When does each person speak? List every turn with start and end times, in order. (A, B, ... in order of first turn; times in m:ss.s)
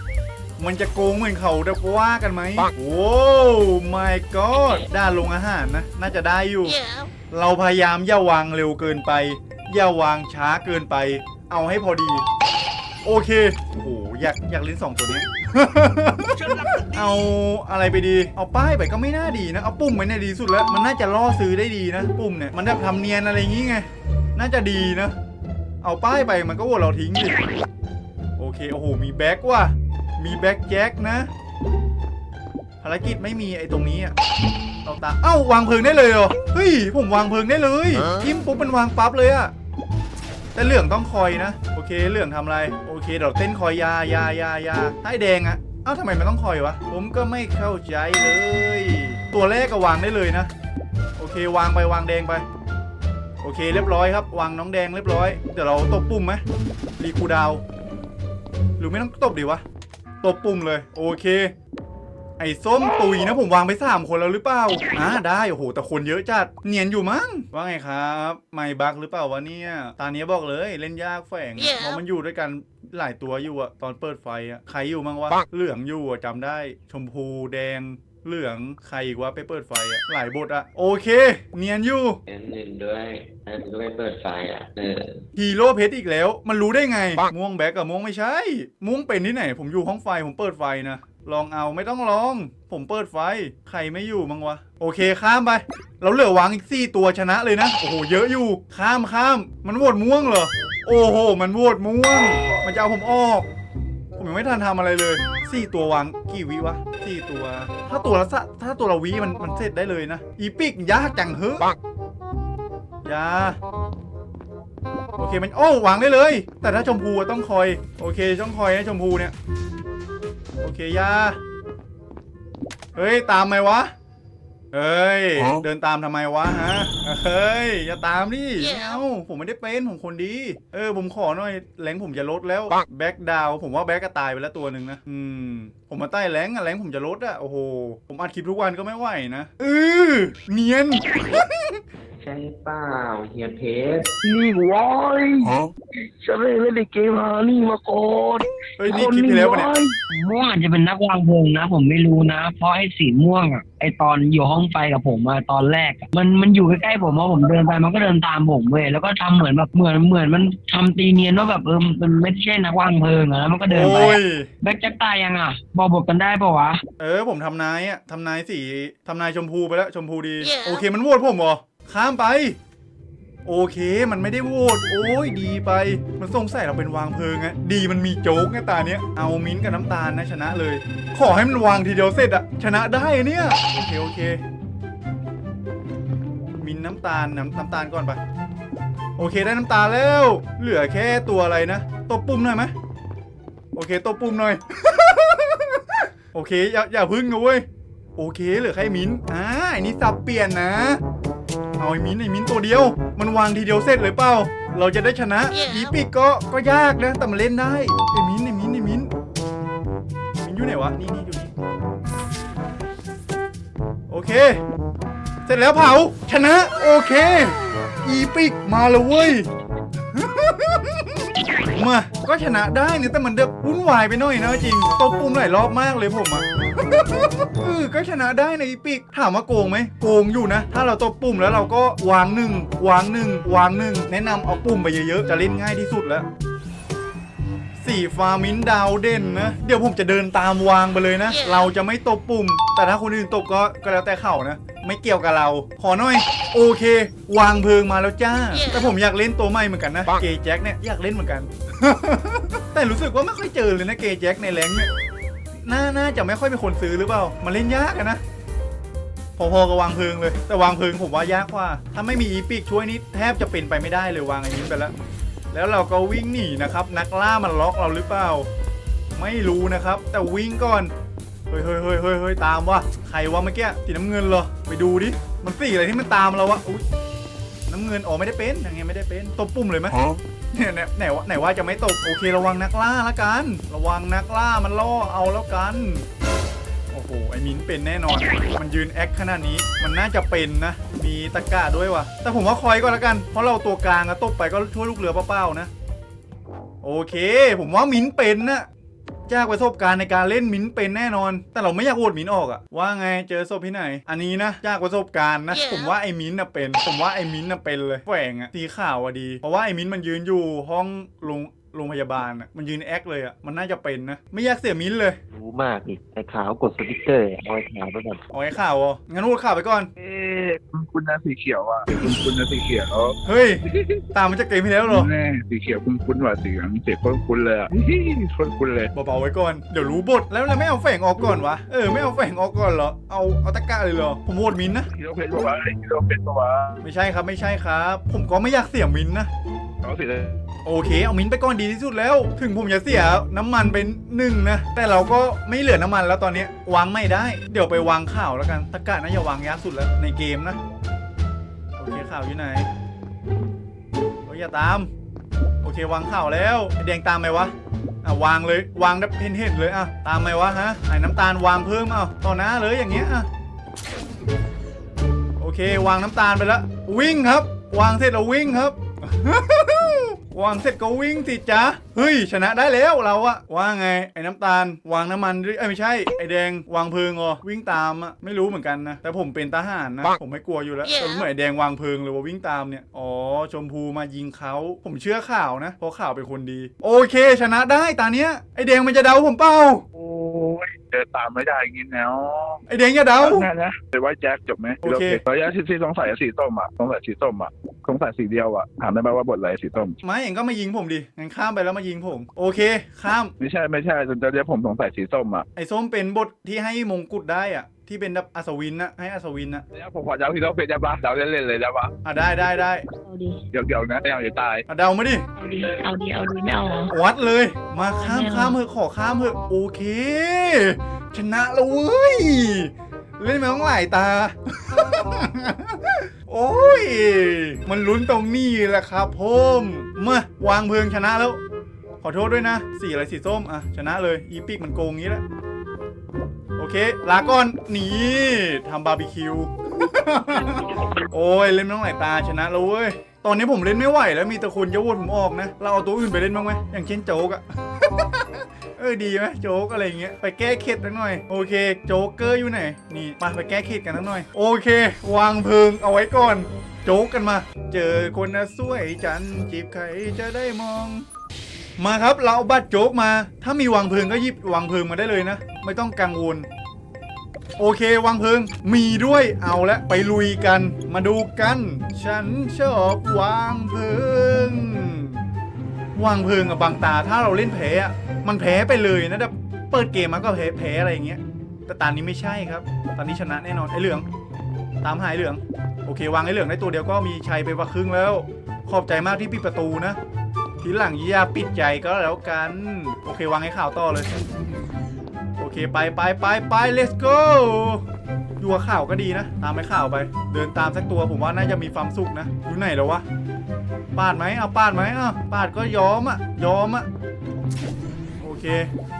0:00.6-0:12.2 A
0:13.0-0:25.1 A
0:25.8-0:27.4 A
0:28.4-0:31.3 A
0:32.8-0:34.1 A
0:34.8-0:39.5 A
0:40.5-0:50.5 A
0:51.2-0:52.4 A
0:53.4-0:56.4 A
0:57.0-0:57.6 A
0:58.8-0:59.6 A
1:00.2-1:01.5 A
1:02.4-1:22.2 A
1:22.3-1:25.2 B
1:25.4-1:43.5 A
1:44.2-1:51.7 A
1:53.0-1:53.6 A
1:55.2-1:59.3 A
2:00.6-2:01.4 A
2:02.9-2:03.9 A
2:04.7-2:21.8 A
2:22.2-2:24.1 B
2:28.8-2:29.7 A
2:28.9-2:46.8 C
2:43.7-2:44.5 A
2:47.0-2:52.6 A
2:53.4-3:04.4 A
3:06.6-3:08.2 A
3:09.2-3:12.7 A
3:13.7-3:17.6 A
3:18.2-3:21.0 A
3:21.8-3:29.1 A
3:30.4-3:31.5 A
3:34.1-3:34.6 A
3:35.4-3:39.5 A
3:40.1-3:56.3 A
3:57.8-4:14.9 A
4:15.6-4:18.2 A
4:19.4-4:24.9 A
4:25.5-4:28.5 A
4:29.2-4:30.9 A
4:31.5-4:36.8 A
4:37.7-4:46.1 A
4:46.9-4:55.7 A
4:56.8-4:58.7 A
4:59.3-5:15.2 A
5:15.3-5:18.2 B
5:18.3-5:19.9 A
5:20.0-5:23.2 D
5:23.2-5:23.6 A
5:23.7-5:24.0 D
5:24.1-5:25.1 A
5:24.8-5:28.9 D
5:28.9-5:34.9 A
5:34.9-5:36.8 D
5:36.8-5:39.3 A
5:39.8-5:40.4 D
5:40.6-5:50.6 A
5:51.8-5:52.7 A
5:54.2-5:54.9 A
5:55.6-5:57.5 A
5:58.0-6:03.3 A
6:05.4-6:29.8 A
6:30.0-6:32.6 D
6:32.7-6:33.5 A
6:33.2-6:40.0 D
6:34.8-6:35.2 A
6:40.0-6:43.3 A
6:43.4-6:45.4 D
6:45.6-6:49.6 A
6:49.7-6:51.9 D
6:52.0-6:52.8 A
6:53.0-6:53.4 E
6:53.5-6:54.6 D
6:54.7-6:55.2 A
6:55.4-6:56.9 E
6:56.9-7:11.4 A
6:58.0-6:58.5 E
7:12.0-7:15.2 A
7:16.6-7:41.0 A
7:41.8-7:46.5 A
7:47.6-7:55.2 A
7:56.0-8:04.0 A
8:04.8-8:10.0 A
8:10.6-8:14.1 A
8:15.4-8:17.8 A
8:18.4-8:23.0 A
8:23.9-8:26.9 A
8:28.2-8:28.7 A